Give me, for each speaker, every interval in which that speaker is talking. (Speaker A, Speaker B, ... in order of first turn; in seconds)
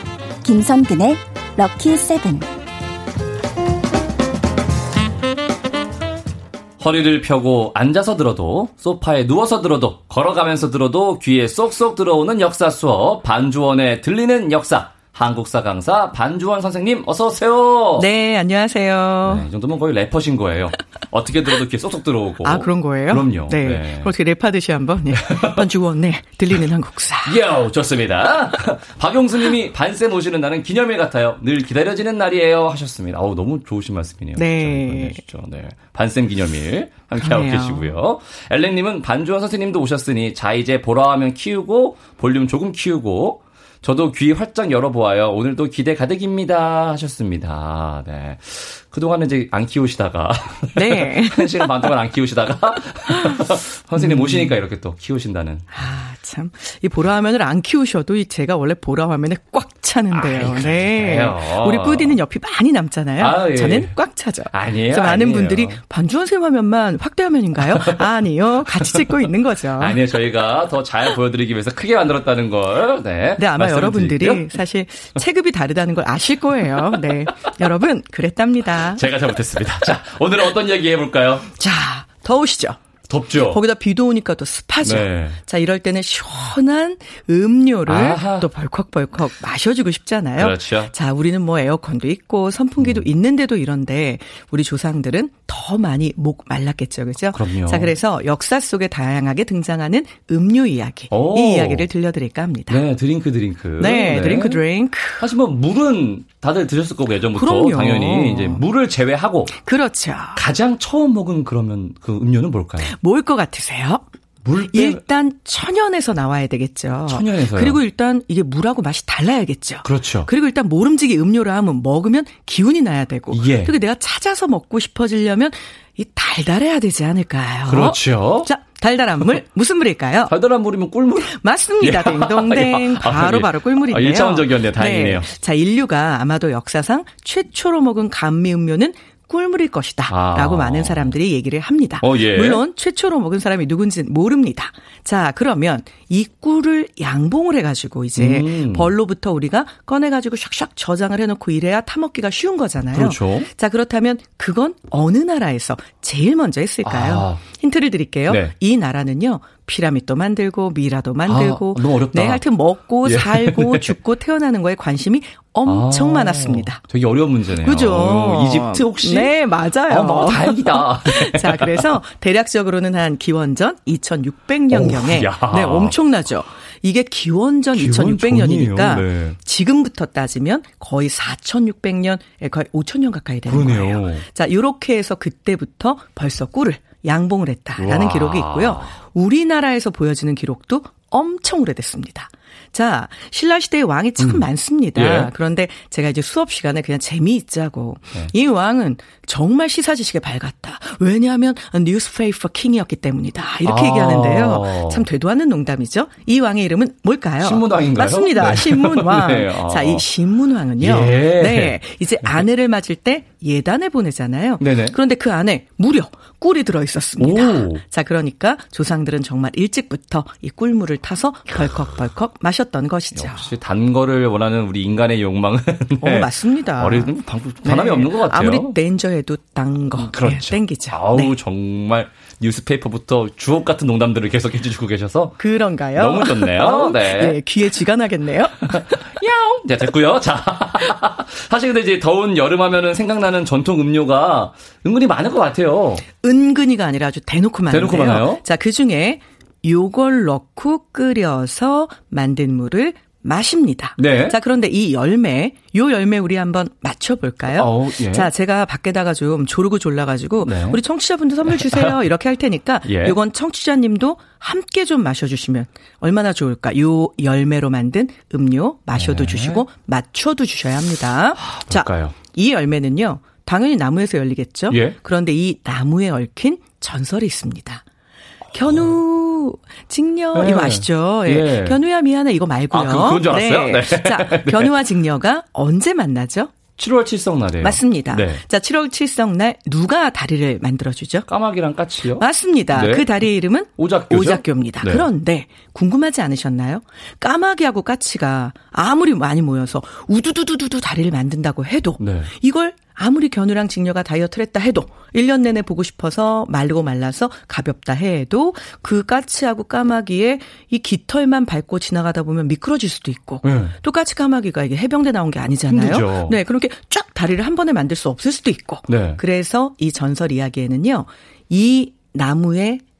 Speaker A: 0.4-2.5
Speaker B: 6.8-18.1, 19.2-24.1, 25.2-25.6, 27.2-55.7, 60.1-62.2, 63.2-64.0, 64.5-65.8, 67.6-68.1, 68.8-74.6, 76.7-77.2, 78.7-81.5, 83.1-83.6, 84.8-85.4, 87.9-88.5, 90.4-90.9, 97.3-97.9, 101.1-101.9, 102.7-104.6, 105.2-109.6, 110.4-113.0, 114.5-115.0, 117.1-117.8, 119.8-120.3, 123.3-123.8, 127.7-128.5, 130.3-135.3, 140.1-141.2, 142.0-142.6, 148.2-148.9, 152.9-153.5, 156.8-157.4, 158.3-158.5, 161.2-162.4, 163.0-163.9, 165.7-169.4, 169.9-171.9, 174.7-176.0, 177.7-179.4, 183.5-184.3, 187.8-189.0, 194.2-195.3, 203.6-205.1, 207.4-210.1, 210.8-212.4, 214.6-215.0, 217.2-217.8, 223.2-228.8, 229.9-235.4, 235.9-237.5, 238.7-246.1, 247.7-248.4, 254.0-254.4, 257.5-258.3, 260.4-260.8, 261.4-262.0, 262.9-263.2, 268.9-269.7, 271.4-272.1, 274.7-275.0, 280.3-281.8, 282.7-284.7, 286.8-288.4, 291.3-293.3, 293.8-295.1, 302.0-302.3, 313.4-313.8, 315.7-316.4, 318.9-319.2
Speaker C: 18.0-19.5, 22.4-27.4, 34.4-35.2, 37.1-38.0, 50.8-51.9, 53.1-54.5, 55.7-70.0, 73.4-79.1, 81.5-82.8, 83.3-102.8, 103.8-105.3, 107.3-108.7, 109.5-110.4, 112.8-114.0, 114.7-130.3, 131.2-166.8, 167.6-223.5, 226.0-231.3, 235.4-239.2, 246.2-277.8, 278.5-286.5, 287.6-291.3, 292.2-322.8